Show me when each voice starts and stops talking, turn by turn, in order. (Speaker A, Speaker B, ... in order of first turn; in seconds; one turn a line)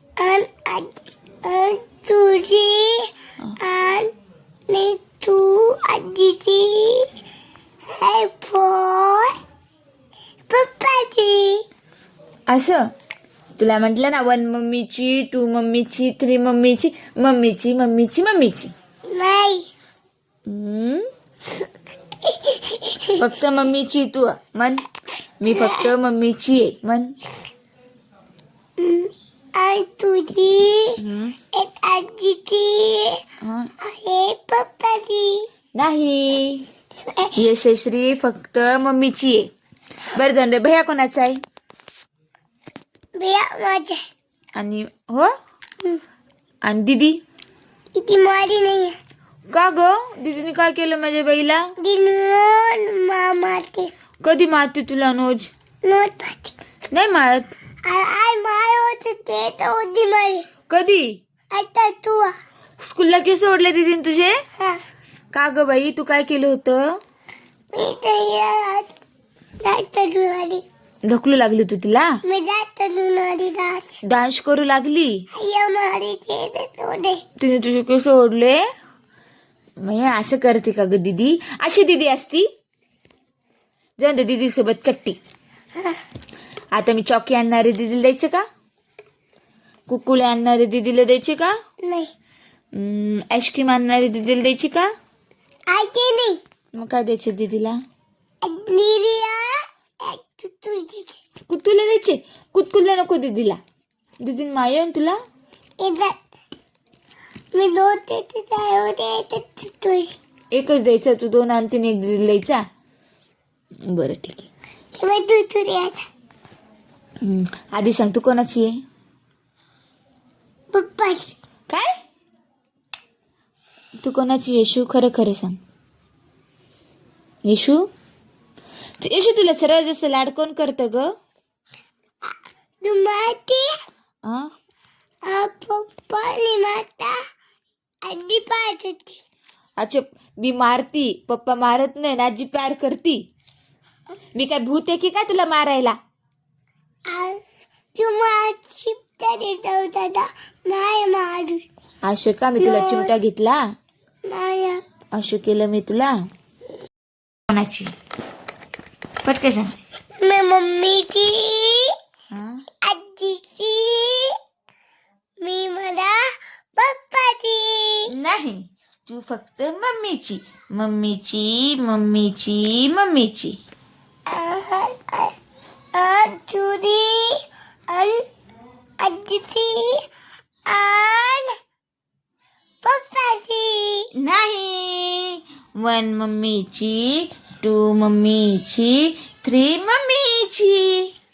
Speaker A: 0.2-0.9
Speaker A: 1.4-4.1
Speaker A: 4.7-7.1
Speaker A: 7.9-9.3
Speaker A: 10.5-11.6
Speaker B: 12.5-12.9
Speaker B: 13.6-18.7
Speaker A: 19.1-19.7
Speaker B: 20.5-21.1
Speaker A: 22.2-23.1
Speaker B: 23.1-24.8
Speaker B: 25.4-27.2
Speaker A: 25.5-25.9
Speaker A: 28.8-31.0
Speaker B: 31.0-31.4
Speaker A: 31.5-33.2
Speaker B: 33.4-33.7
Speaker A: 33.8-35.5
Speaker B: 35.7-36.6
Speaker A: 37.1-37.3
Speaker B: 37.3-39.5
Speaker B: 40.1-41.4
Speaker A: 43.1-44.0
Speaker B: 44.5-45.3
Speaker B: 46.6-47.2
Speaker A: 47.9-49.0
Speaker B: 49.5-51.8
Speaker A: 51.8-53.9
Speaker B: 54.2-55.5
Speaker A: 55.8-56.5
Speaker B: 56.9-57.5
Speaker A: 57.8-60.5
Speaker B: 60.7-61.2
Speaker A: 61.5-62.3
Speaker B: 62.8-64.3
Speaker B: 65.3-67.0
Speaker A: 67.7-69.0
Speaker A: 69.6-70.6
Speaker B: 71.1-72.2
Speaker A: 72.2-74.0
Speaker B: 74.0-75.3
Speaker A: 75.3-77.2
Speaker B: 77.4-78.6
Speaker B: 79.8-82.5
Speaker B: 84.0-85.2
Speaker B: 86.7-88.5
Speaker B: 89.9-91.5
Speaker A: 91.8-92.1
Speaker B: 92.7-94.9
Speaker A: 95.7-96.4
Speaker B: 96.7-97.8
Speaker A: 98.4-101.2
Speaker B: 101.5-103.6
Speaker B: 104.2-105.2
Speaker A: 105.8-106.2
Speaker A: 107.5-110.2
Speaker B: 110.5-112.6
Speaker B: 113.9-114.5
Speaker A: 114.9-116.0
Speaker B: 117.2-118.7
Speaker A: 120.7-121.3
Speaker B: 124.0-125.6
Speaker B: 127.4-127.8
Speaker B: 129.0-131.1
Speaker A: 132.8-133.7
Speaker B: 134.2-134.5
Speaker A: 135.2-137.2
Speaker A: 138.0-139.2
Speaker B: 139.8-143.2
Speaker B: 144.3-146.0
Speaker A: 147.1-147.4
Speaker A: 147.9-151.7
Speaker B: 152.1-153.6
Speaker A: 152.6-153.1
Speaker A: 154.2-154.8
Speaker B: 155.1-156.2
Speaker B: 157.5-157.9
Speaker B: 159.2-159.8
Speaker A: 160.2-161.9
Speaker B: 162.3-162.6
Speaker A: 162.8-164.3
Speaker A: 165.4-166.2
Speaker A: 166.7-168.1
Speaker B: 168.1-173.6
Speaker A: 174.3-175.3
Speaker A: 175.9-178.2
Speaker A: 179.0-180.0
Speaker A: 180.7-181.5
Speaker A: 182.8-184.1
Speaker B: 184.2-191.1